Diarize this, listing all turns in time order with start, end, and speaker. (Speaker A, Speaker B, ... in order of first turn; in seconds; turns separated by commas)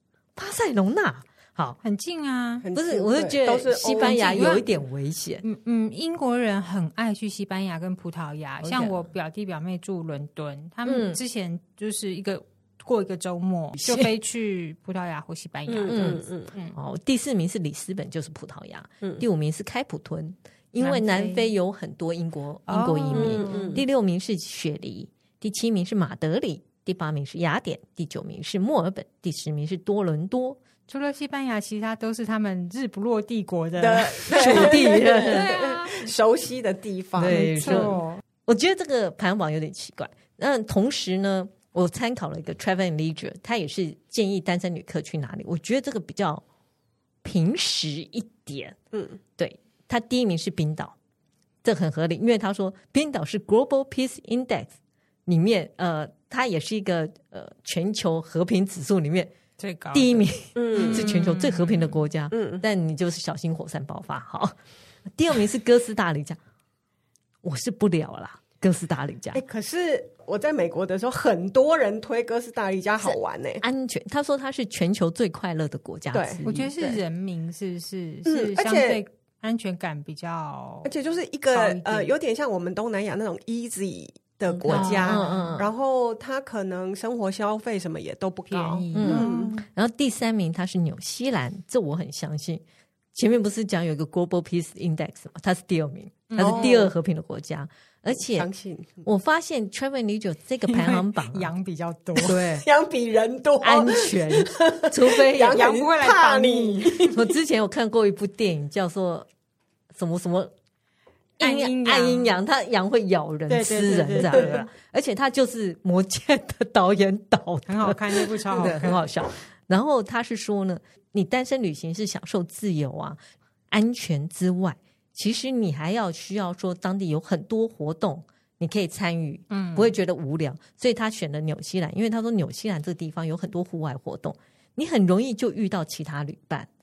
Speaker A: 0.4-1.8, Speaker B: 1.8-2.6, Speaker C: 2.6-4.6, Speaker A: 2.7-5.4, Speaker B: 4.0-4.6, Speaker B: 5.4-16.8, Speaker A: 10.8-11.2, Speaker A: 13.8-14.1, Speaker C: 15.7-16.5, Speaker A: 15.9-30.6, Speaker B: 20.8-21.5, Speaker B: 22.7-23.8, Speaker C: 23.1-23.8, Speaker B: 30.9-36.1, Speaker C: 33.8-38.0, Speaker A: 34.3-35.5, Speaker A: 37.2-46.4, Speaker B: 37.2-38.2, Speaker A: 47.2-48.8, Speaker C: 48.9-49.2, Speaker A: 49.4-51.0, Speaker A: 51.6-54.7, Speaker A: 55.3-59.3, Speaker B: 59.6-62.0, Speaker A: 59.9-64.5, Speaker C: 60.5-61.1, Speaker C: 62.3-62.6, Speaker A: 65.1-66.4, Speaker A: 67.4-69.4, Speaker C: 69.3-73.6, Speaker A: 73.0-76.7, Speaker C: 76.1-77.0, Speaker B: 76.5-80.9, Speaker C: 78.3-79.0, Speaker C: 80.8-89.6, Speaker B: 81.5-82.1, Speaker A: 84.5-85.7, Speaker B: 84.7-85.5, Speaker B: 88.5-89.6, Speaker A: 88.9-92.6, Speaker A: 93.1-98.5, Speaker B: 96.3-96.9, Speaker C: 96.4-96.9, Speaker C: 98.2-99.0, Speaker A: 99.0-101.5, Speaker B: 100.7-102.4, Speaker A: 102.2-102.7, Speaker C: 102.2-107.2, Speaker A: 103.6-105.7, Speaker B: 105.4-107.1, Speaker A: 107.1-109.3, Speaker A: 109.9-110.5, Speaker A: 111.4-123.2, Speaker B: 111.4-112.3, Speaker B: 113.5-114.7, Speaker B: 117.7-119.0, Speaker A: 123.7-136.7, Speaker B: 129.5-129.9